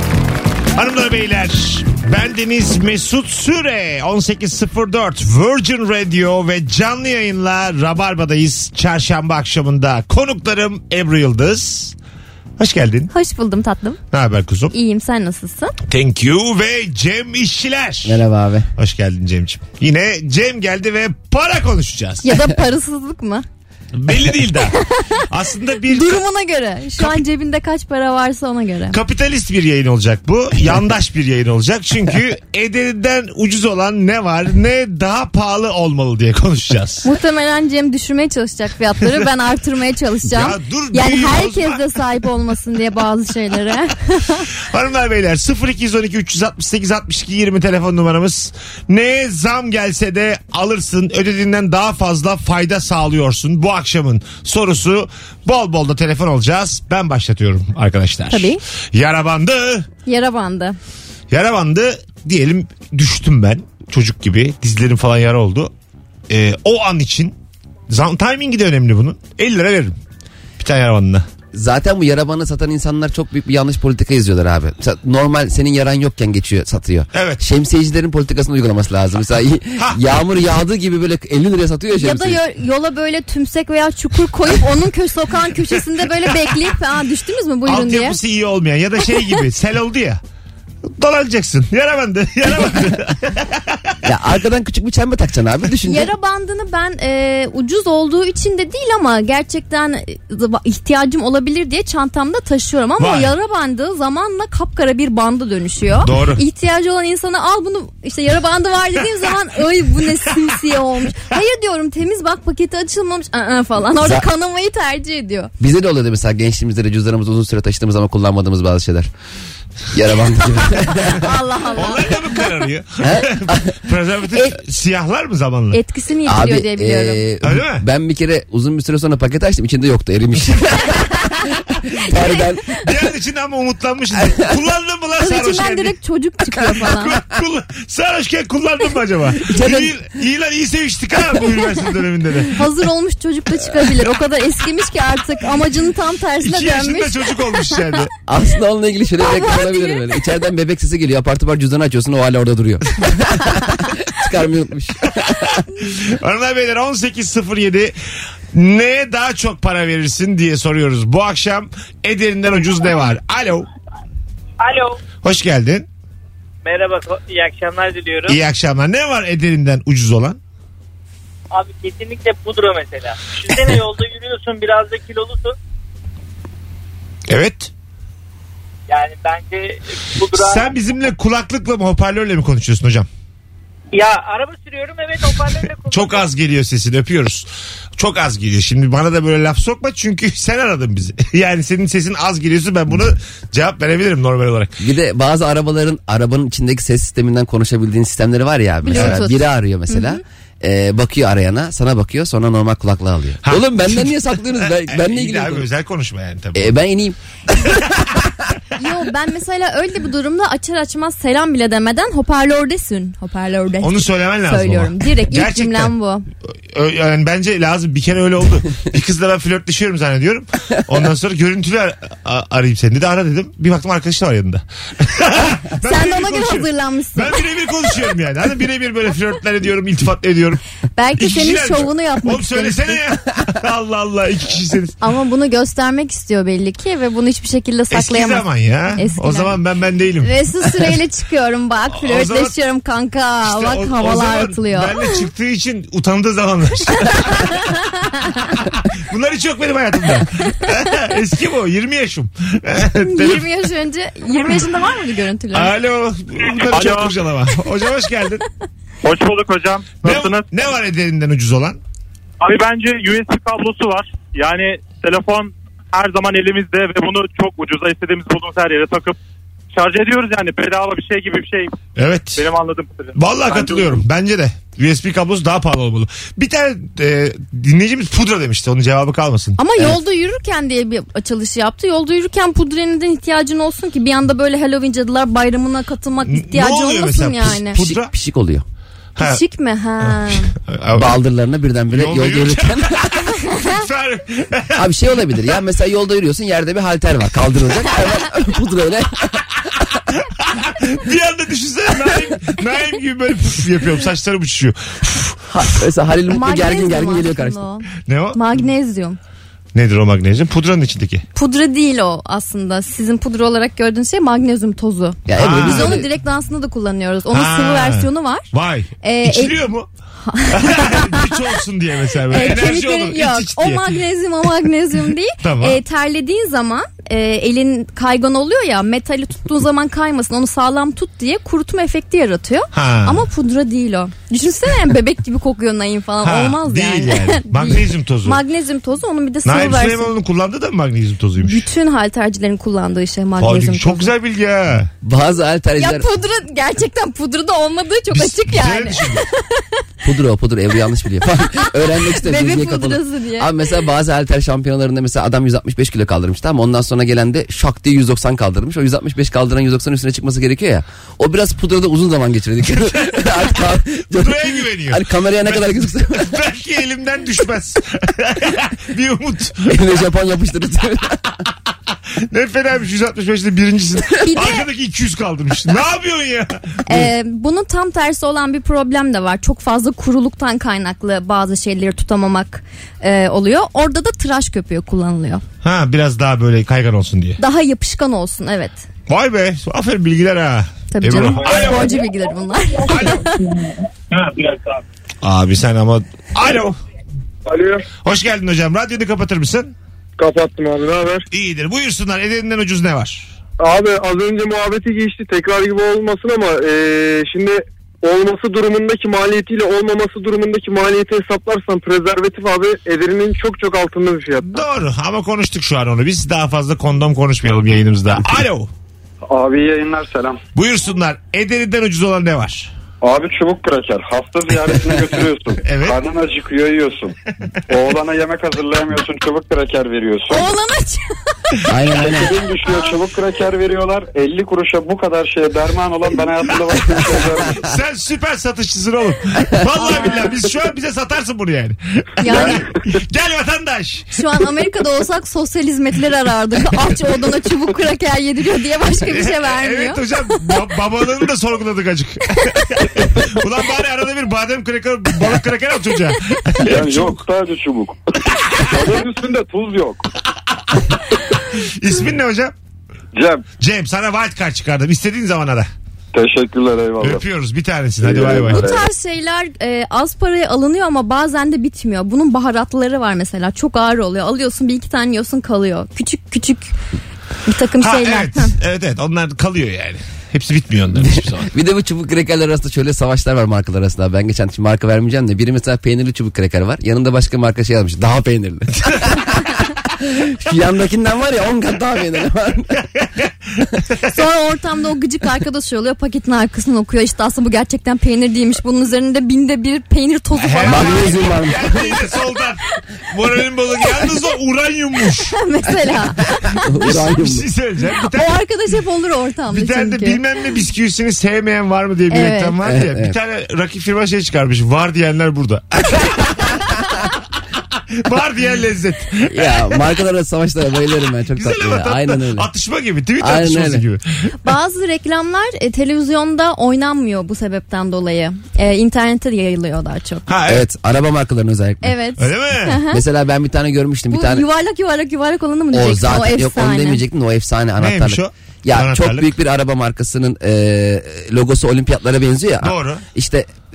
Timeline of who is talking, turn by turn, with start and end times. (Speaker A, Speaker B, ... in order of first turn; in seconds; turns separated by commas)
Speaker A: 0.8-11.9, Speaker A: 12.6-13.1, Speaker B: 13.1-14.0, Speaker A: 14.1-14.7, Speaker B: 14.7-15.7, Speaker A: 15.9-18.2, Speaker C: 18.0-18.7, Speaker A: 18.8-22.3, Speaker B: 22.2-23.4, Speaker A: 23.9-26.2, Speaker B: 24.7-25.2, Speaker B: 25.9-29.0, Speaker A: 28.9-37.0, Speaker B: 37.0-44.5, Speaker A: 40.2-41.8, Speaker A: 44.7-59.9, Speaker B: 58.3-58.6, Speaker B: 60.0-60.8, Speaker A: 61.3-65.7, Speaker A: 66.3-67.3, Speaker A: 67.9-70.0, Speaker A: 70.6-71.2, Speaker C: 71.5-82.4, Speaker A: 77.1-77.4, Speaker B: 82.0-88.2, Speaker A: 87.7-90.2, Speaker A: 90.8-94.0, Speaker C: 94.0-96.1, Speaker B: 95.8-115.5, Speaker A: 103.0-103.3, Speaker A: 106.0-106.4, Speaker C: 114.0-114.2, Speaker C: 115.6-119.1, Speaker C: 119.9-121.2, Speaker B: 120.9-122.4, Speaker A: 121.7-125.8, Speaker C: 123.0-123.8, Speaker B: 125.7-127.2, Speaker C: 126.2-131.0, Speaker A: 127.4-127.8, Speaker C: 132.0-132.7, Speaker A: 132.7-135.9, Speaker C: 134.2-134.4, Speaker B: 135.2-137.2, Speaker A: 136.8-142.6, Speaker C: 139.5-139.9, Speaker B: 142.5-148.0, Speaker A: 146.4-148.1, Speaker C: 148.3-155.6, Speaker B: 149.2-150.1, Speaker A: 155.8-157.9, Speaker A: 158.5-163.7, Speaker D: 164.6-165.0, Speaker A: 165.2-165.8, Speaker D: 166.6-168.4, Speaker A: 168.3-170.4, Speaker D: 171.5-175.5, Speaker A: 177.3-177.7, Speaker D: 178.9-180.7, Speaker A: 180.3-183.1, Speaker D: 183.9-186.3, Speaker A: 185.9-194.7, Speaker C: 194.8-205.7, Speaker B: 198.8-200.2, Speaker A: 198.9-199.2, Speaker A: 203.4-206.8, Speaker C: 206.5-208.2, Speaker B: 208.8-216.2, Speaker A: 213.8-215.9, Speaker A: 216.7-230.6, Speaker B: 225.8-227.4, Speaker B: 231.0-233.0, Speaker A: 231.2-234.9, Speaker B: 235.0-239.5, Speaker A: 237.9-240.9, Speaker B: 240.2-245.2, Speaker A: 242.0-242.6, Speaker A: 243.4-247.6, Speaker B: 247.1-248.5, Speaker A: 248.6-253.4, Speaker B: 253.0-255.8, Speaker A: 255.5-258.4, Speaker E: 256.7-257.1, Speaker E: 259.0-260.5, Speaker A: 260.0-261.8, Speaker E: 262.4-269.2, Speaker E: 269.7-271.8, Speaker A: 271.9-272.4, Speaker E: 272.4-273.9, Speaker A: 273.1-279.6, Speaker B: 279.6-287.8, Speaker A: 286.2-288.1, Speaker C: 287.8-288.6, Speaker B: 289.2-290.5, Speaker A: 290.0-291.1, Speaker C: 290.9-293.1, Speaker A: 291.9-294.8, Speaker B: 293.5-293.8, Speaker C: 294.8-299.4, Speaker A: 300.4-305.4, Speaker C: 305.5-307.6, Speaker B: 306.3-309.2, Speaker A: 308.0-308.4, Speaker A: 309.7-311.2, Speaker B: 311.3-318.5, Speaker C: 315.3-316.1, Speaker A: 315.3-316.0, Speaker A: 317.3-319.9, Speaker B: 319.0-319.6, Speaker B: 320.2-321.3, Speaker A: 320.5-323.9, Speaker B: 322.3-340.1, Speaker A: 325.4-325.8, Speaker A: 332.7-333.2, Speaker A: 336.2-338.4, Speaker A: 339.4-341.6, Speaker B: 341.4-344.1, Speaker A: 343.4-344.9, Speaker C: 345.0-346.1, Speaker B: 345.8-349.7, Speaker A: 348.1-349.2, Speaker C: 350.0-366.4, Speaker B: 351.9-353.6, Speaker A: 362.8-363.3, Speaker A: 364.0-369.9, Speaker C: 369.7-371.2, Speaker A: 372.3-377.1, Speaker B: 374.2-374.6, Speaker B: 376.8-385.4, Speaker A: 385.6-387.4, Speaker B: 387.4-388.8, Speaker A: 389.1-391.9, Speaker B: 390.9-393.6, Speaker A: 392.8-393.3, Speaker A: 395.2-396.8, Speaker F: 397.5-397.8, Speaker A: 398.0-399.7, Speaker F: 400.2-401.2, Speaker A: 401.3-403.3, Speaker F: 403.6-414.7, Speaker A: 414.4-418.7, Speaker G: 419.3-420.4, Speaker A: 420.5-422.7, Speaker G: 423.0-427.1, Speaker A: 425.6-426.0, Speaker G: 427.7-430.5, Speaker B: 430.3-432.9, Speaker C: 431.7-432.4, Speaker G: 432.0-437.6, Speaker A: 437.5-444.1, Speaker B: 439.8-440.3, Speaker B: 442.2-442.6, Speaker G: 442.3-442.6, Speaker B: 444.1-450.5, Speaker A: 449.0-457.2, Speaker G: 456.6-458.0, Speaker A: 458.4-458.8, Speaker G: 458.6-460.0, Speaker A: 461.5-462.5, Speaker G: 463.1-463.4, Speaker A: 463.6-465.7, Speaker G: 466.1-467.2, Speaker A: 467.0-468.6, Speaker G: 468.0-468.8, Speaker B: 468.4-476.7, Speaker B: 477.4-478.5, Speaker A: 477.8-481.5, Speaker C: 481.0-492.8, Speaker A: 493.9-494.2, Speaker B: 494.1-501.9, Speaker A: 500.4-505.4, Speaker C: 500.7-501.9, Speaker B: 505.1-506.6, Speaker C: 506.6-507.5, Speaker A: 506.8-508.4, Speaker B: 508.0-510.2, Speaker A: 509.5-516.9, Speaker B: 512.1-512.6, Speaker C: 512.6-513.1, Speaker A: 518.0-519.7, Speaker C: 519.3-522.5, Speaker A: 521.3-524.3, Speaker C: 523.2-523.8, Speaker B: 524.4-530.3, Speaker A: 530.3-530.6, Speaker C: 530.5-531.9, Speaker B: 531.8-533.0, Speaker A: 532.2-532.8, Speaker C: 532.9-534.4, Speaker B: 534.1-537.0, Speaker C: 535.7-543.5, Speaker A: 537.8-539.3, Speaker A: 542.6-543.0